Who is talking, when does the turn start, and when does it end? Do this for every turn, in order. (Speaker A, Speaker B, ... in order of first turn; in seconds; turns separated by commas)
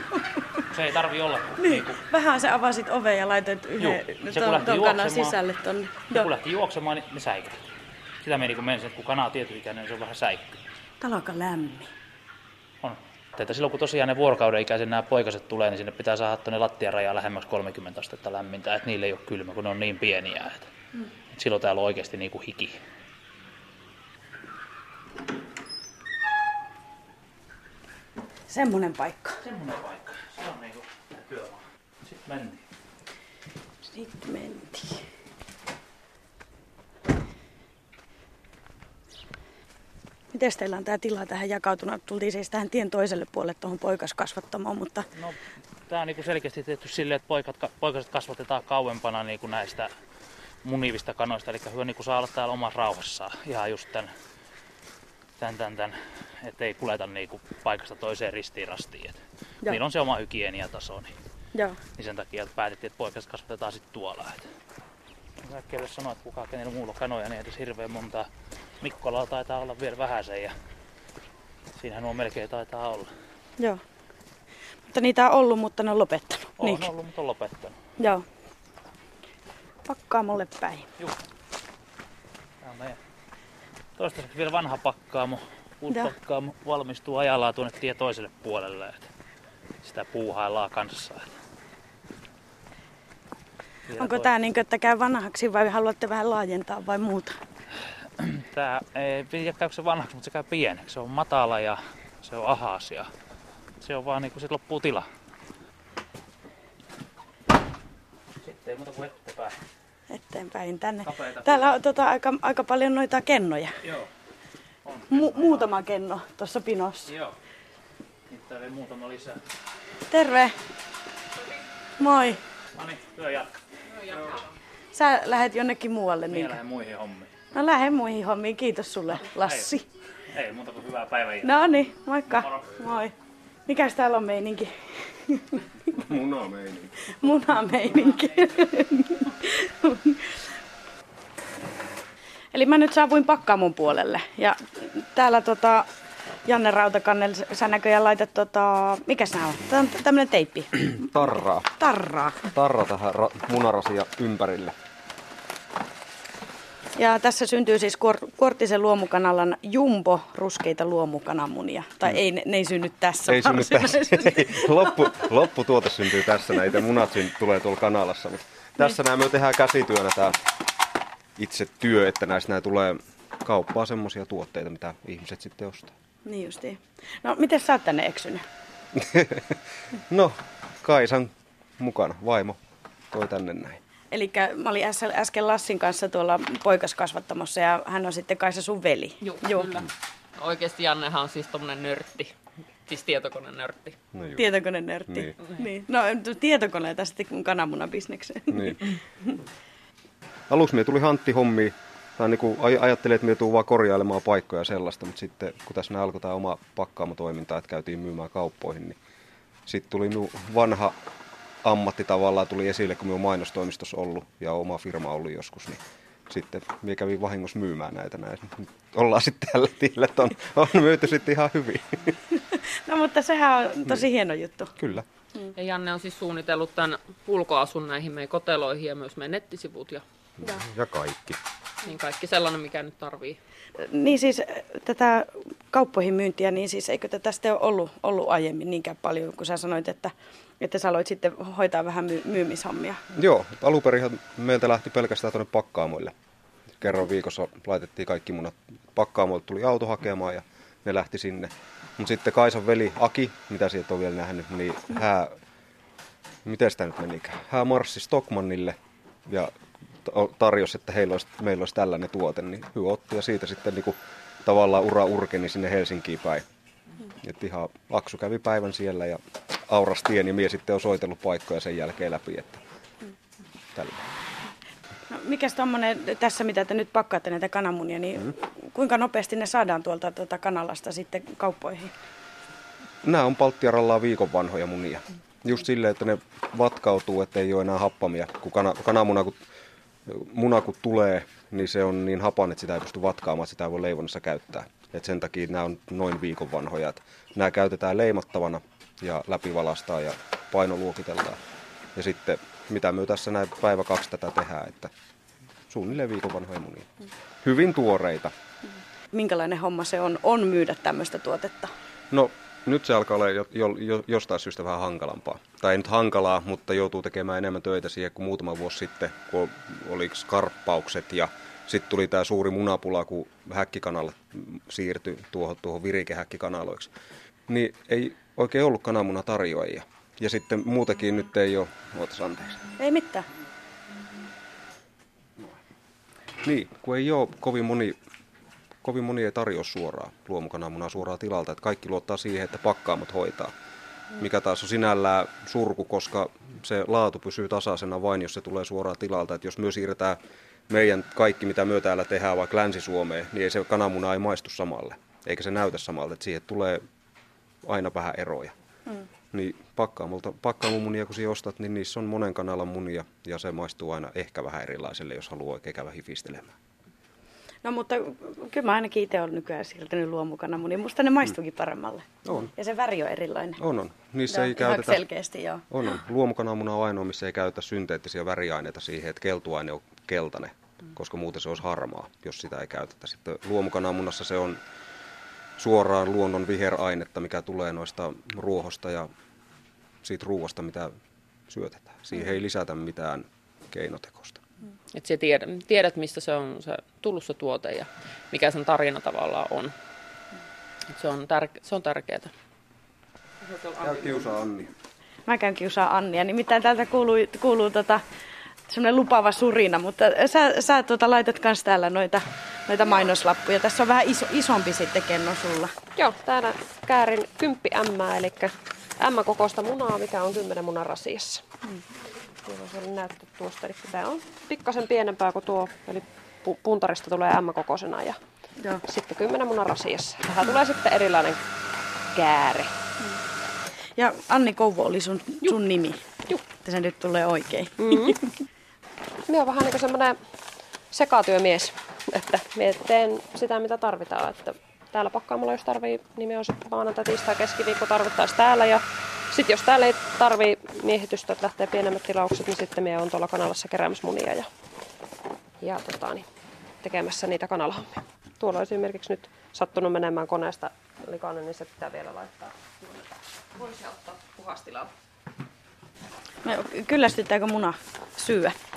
Speaker A: 0.7-2.0, Speaker B: 1.6-6.3, Speaker A: 3.8-5.3, Speaker A: 6.1-7.5, Speaker A: 8.2-10.6, Speaker B: 11.0-11.9, Speaker A: 12.8-20.7, Speaker A: 21.3-22.8, Speaker B: 28.5-29.4, Speaker A: 29.4-32.6, Speaker B: 33.9-35.0, Speaker B: 40.3-45.1, Speaker A: 45.9-49.9, Speaker A: 50.6-54.1, Speaker A: 55.4-61.1, Speaker A: 62.0-64.5, Speaker A: 65.4-68.3, Speaker A: 68.8-70.5, Speaker A: 71.8-73.1, Speaker B: 74.9-76.9, Speaker A: 76.6-77.8, Speaker B: 78.0-78.2, Speaker B: 79.9-80.9, Speaker A: 82.6-83.0, Speaker A: 84.0-89.1, Speaker A: 89.8-91.3, Speaker A: 93.9-94.3, Speaker B: 94.0-97.3, Speaker A: 98.2-103.1, Speaker A: 103.8-105.1, Speaker A: 108.4-109.6, Speaker B: 110.1-113.7, Speaker A: 111.0-111.7, Speaker A: 114.8-115.7, Speaker B: 115.1-117.1, Speaker A: 117.1-117.3, Speaker A: 118.3-119.4, Speaker B: 120.1-120.5, Speaker B: 122.0-122.4, Speaker A: 122.7-124.2, Speaker B: 124.9-126.5, Speaker A: 126.3-127.3, Speaker B: 127.5-129.8, Speaker A: 129.3-129.7, Speaker A: 130.3-131.5, Speaker B: 131.4-133.1, Speaker B: 133.7-135.6, Speaker C: 135.9-136.9, Speaker B: 137.1-140.4, Speaker B: 142.5-145.9, Speaker B: 146.4-151.0, Speaker C: 151.0-151.7, Speaker B: 151.8-152.4, Speaker C: 152.4-154.8, Speaker B: 157.0-165.2, Speaker C: 163.3-170.4, Speaker C: 171.3-175.9, Speaker B: 176.2-178.4, Speaker C: 178.9-179.6, Speaker C: 180.1-182.6, Speaker C: 183.1-183.8, Speaker B: 184.1-189.8, Speaker D: 189.2-192.3, Speaker D: 192.8-194.0, Speaker C: 194.1-194.4, Speaker B: 194.3-199.4, Speaker C: 195.1-195.3, Speaker C: 198.5-198.8, Speaker C: 200.5-209.0, Speaker C: 209.7-210.9, Speaker C: 211.6-222.1, Speaker B: 222.5-224.7, Speaker C: 224.8-225.0, Speaker D: 225.5-230.0, Speaker C: 230.4-231.4, Speaker D: 231.8-233.4, Speaker B: 233.8-243.0, Speaker C: 243.1-246.1, Speaker C: 246.8-255.3, Speaker C: 256.4-266.4, Speaker C: 267.2-272.6, Speaker C: 273.7-274.0, Speaker B: 275.1-281.9, Speaker C: 283.0-289.4, Speaker C: 290.1-301.4, Speaker C: 301.9-304.9, Speaker C: 305.7-306.9, Speaker C: 307.4-308.3, Speaker B: 309.1-311.7, Speaker C: 312.1-326.9, Speaker C: 327.5-332.6, Speaker B: 332.8-333.2, Speaker C: 336.4-338.0, Speaker C: 338.8-343.5, Speaker C: 344.2-350.2, Speaker C: 350.7-356.8, Speaker C: 357.6-358.5, Speaker C: 359.3-366.6, Speaker B: 367.6-373.6, Speaker C: 372.2-372.5, Speaker C: 373.6-375.0, Speaker B: 374.3-375.6, Speaker C: 375.7-384.6, Speaker C: 385.6-389.1, Speaker C: 390.0-390.9, Speaker C: 391.5-394.4, Speaker D: 394.9-399.7, Speaker D: 400.9-402.3, Speaker D: 403.4-404.2, Speaker C: 403.8-404.7, Speaker B: 405.3-408.0, Speaker B: 408.7-415.7, Speaker E: 415.9-421.4, Speaker E: 422.4-428.2, Speaker E: 428.8-431.4, Speaker E: 432.1-432.7, Speaker B: 434.0-438.1, Speaker E: 437.8-438.2, Speaker E: 439.3-440.2, Speaker E: 440.9-454.5, Speaker E: 455.6-456.3, Speaker E: 456.8-464.9, Speaker B: 466.4-468.6